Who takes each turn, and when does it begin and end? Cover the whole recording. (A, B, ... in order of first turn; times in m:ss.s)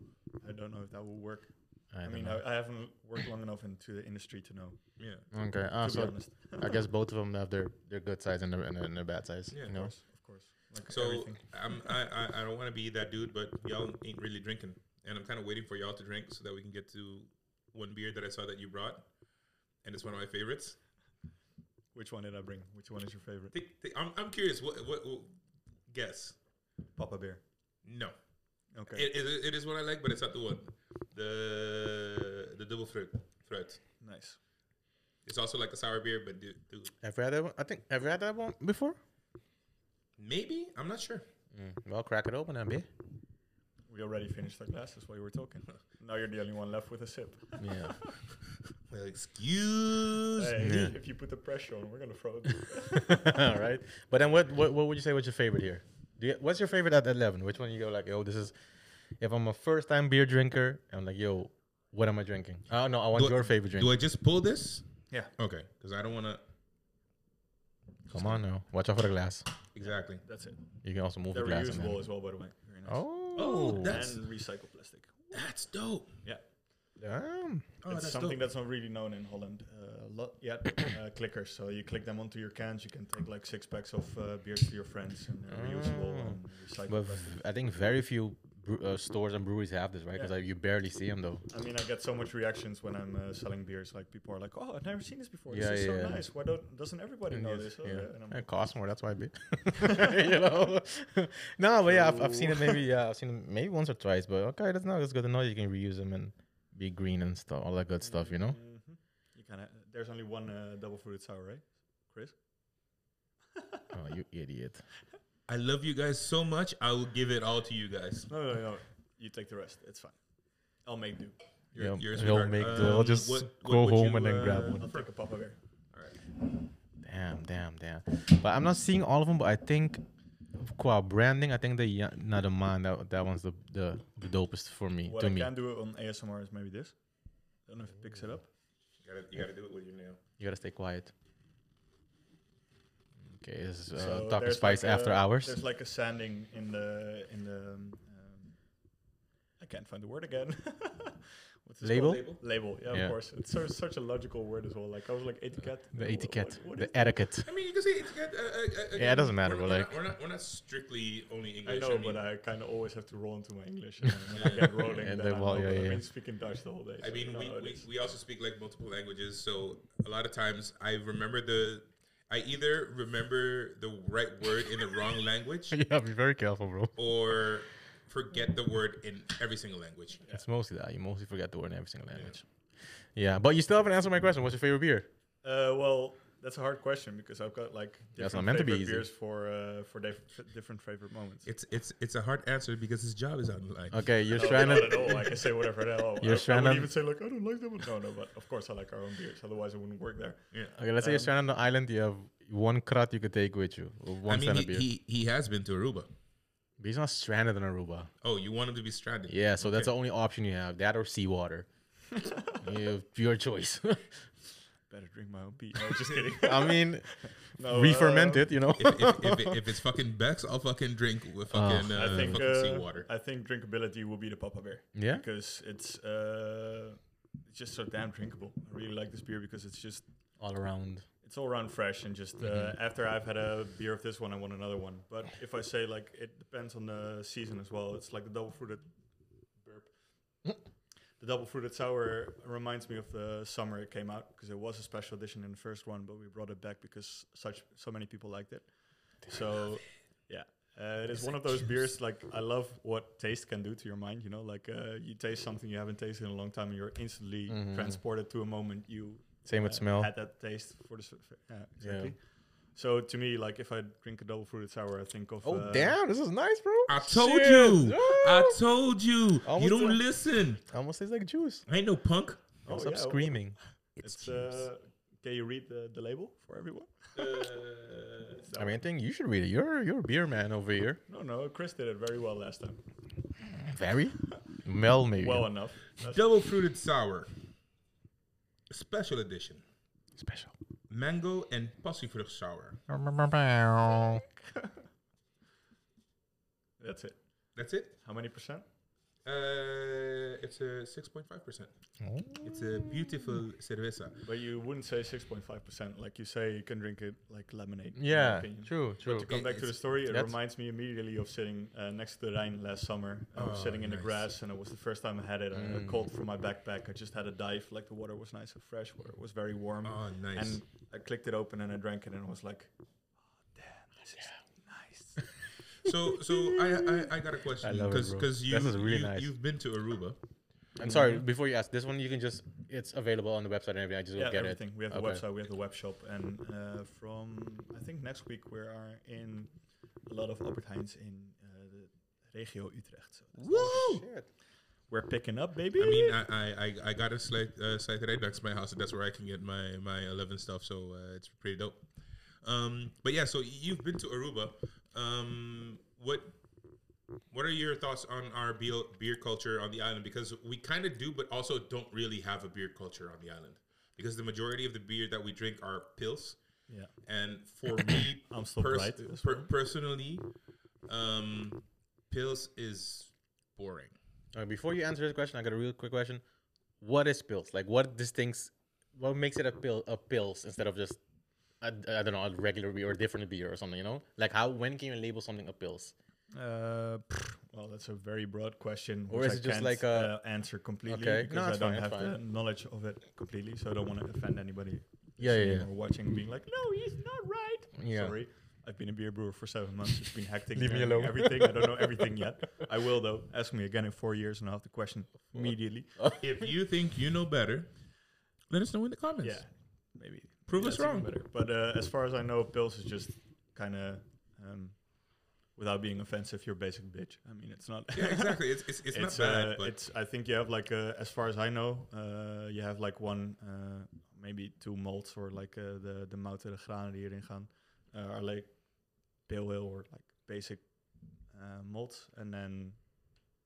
0:00.4-0:05.0 A
0:01.9-0:02.4 B
0:05.0-0:05.2 C
0:05.3-0:09.9 B
0:05.8-0:06.7 A
0:09.5-0:09.9 C
0:09.7-0:11.4 A
0:10.9-0:19.1 C
0:19.8-0:20.8 C
0:21.9-0:23.5 A
0:23.5-0:25.3 C
0:25.9-0:26.4 C
0:27.0-0:27.4 A
0:27.8-0:28.1 C
0:28.7-0:29.1 A
0:28.9-0:33.8 C
0:34.0-0:34.4 A
0:35.2-0:36.9 C
0:37.0-0:39.0 B
0:40.2-0:41.3 C
0:41.5-0:42.9 B
0:43.9-0:48.2 A
0:47.6-0:47.9 B
0:48.9-0:50.6 C
0:50.3-0:53.4 A
0:50.6-0:51.0 B
0:53.0-0:58.6 B
0:59.2-1:03.9 B
1:03.1-1:06.4 C
1:08.1-1:08.4 A
1:08.1-1:09.5 B
1:09.7-1:10.2 C
1:09.8-1:10.6 A
1:10.8-1:12.0 B
1:11.3-1:15.4 A
1:12.9-1:14.0 B
1:13.3-1:14.2 C
1:15.3-1:16.2 C
1:17.0-1:17.7 B
1:17.8-1:18.4 C
1:17.8-1:27.4 A
1:25.5-1:31.4 B
1:31.5-1:38.5 A
1:35.5-1:36.3 B
1:37.3-1:48.6 B
1:39.8-1:40.2 A
1:41.8-1:42.8 A
1:48.0-1:52.4 A
1:53.6-1:53.8 A
1:53.9-1:54.8 B
1:55.5-1:58.3 C
1:58.3-2:00.2 A
2:00.8-2:01.4 A
2:01.7-2:05.1 C
2:01.8-2:04.8 B
2:04.2-2:05.6 A
2:07.0-2:10.0 B
2:10.5-2:15.5 B
2:15.0-2:17.0 A
2:17.6-2:18.5 A
2:19.0-2:20.2 C
2:20.4-2:21.1 B
2:23.3-2:25.6 B
2:23.9-2:28.6 A
2:29.6-2:37.2 A
2:31.8-2:33.2 B
2:32.0-2:32.4 C
2:35.9-2:37.5 B
2:37.4-2:42.2 C
2:39.0-2:39.9 B
2:41.6-2:47.9 A
2:44.3-2:44.8 C
2:44.8-2:46.0 B
2:47.0-2:55.8 C
2:55.7-2:57.0 B
2:57.0-3:00.2 C
3:00.3-3:05.1 B
3:05.4-3:11.5 A
3:08.2-3:09.0 B
3:11.4-3:15.1 C
3:13.9-3:15.3 B
3:14.3-3:20.4 A
3:16.2-3:16.9 B
3:20.8-3:24.8 B
3:21.0-3:21.3 A
3:24.2-3:26.1 C
3:26.8-3:28.1 B
3:28.2-3:29.9 C
3:29.3-3:31.7 B
3:32.5-3:34.1 B
3:34.9-3:38.5 A
3:35.9-3:39.6 B
3:38.8-3:43.1 C
3:41.5-3:42.4 B
3:41.9-3:50.0 A
3:44.9-3:45.2 B
3:50.4-3:51.0 B
3:51.2-3:58.9 A
3:52.4-3:52.7 B
3:59.6-3:59.9 A
4:01.2-4:22.2 A
4:11.3-4:11.7 C
4:17.5-4:18.0 B
4:19.4-4:20.1 B
4:21.8-4:22.1 B
4:22.7-4:26.0 A
4:25.4-4:28.6 B
4:26.9-4:30.6 C
4:29.4-4:30.0 B
4:30.7-4:31.6 B
4:31.7-4:32.4 C
4:32.6-4:33.4 A
4:32.7-4:33.6 B
4:34.0-4:37.4 A
4:37.2-4:38.4 C
4:38.4-4:38.7 A
4:38.5-4:41.0 B
4:41.1-4:42.8 A
4:43.4-4:45.5 B
4:45.2-4:46.2 A
4:46.0-4:47.3 C
4:48.7-4:49.6 C
4:50.2-4:50.5 B
4:50.9-4:52.8 C
4:52.9-4:54.2 B
4:56.8-4:57.2 A
4:57.6-4:58.0 C
4:58.0-4:58.6 A
4:59.2-5:01.7 C
5:02.0-5:03.3 B
5:02.4-5:04.2 C
5:04.2-5:22.7 A
5:08.0-5:09.3 B
5:09.1-5:09.8 C
5:10.1-5:10.3 B
5:13.3-5:14.2 C
5:15.5-5:16.1 B
5:19.8-5:20.6 C
5:23.4-5:25.3 A
5:25.8-5:30.2 C
5:26.3-5:29.3 B
5:30.8-5:35.2 B
5:30.8-5:31.2 A
5:34.2-5:39.5 A
5:40.0-5:44.0 A
5:43.4-5:44.0 C
5:43.5-5:44.3 B
5:44.9-5:46.2 A
5:45.8-5:51.9 C
5:52.4-5:56.4 C
5:57.3-6:06.4 C
6:07.0-6:10.3 C
6:08.3-6:09.5 A
6:10.8-6:14.0 C
6:14.3-6:16.2 B
6:16.8-6:21.0 B
6:21.6-6:25.9 B
6:26.3-6:46.1 A
6:29.1-6:30.2 B
6:30.8-6:32.2 B
6:35.2-6:35.7 B
6:37.8-6:38.2 B
6:40.5-6:42.2 B
6:46.2-6:47.7 C
6:48.5-6:49.4 C
6:49.2-7:12.8 A
6:50.5-6:51.1 C
6:57.9-6:59.7 C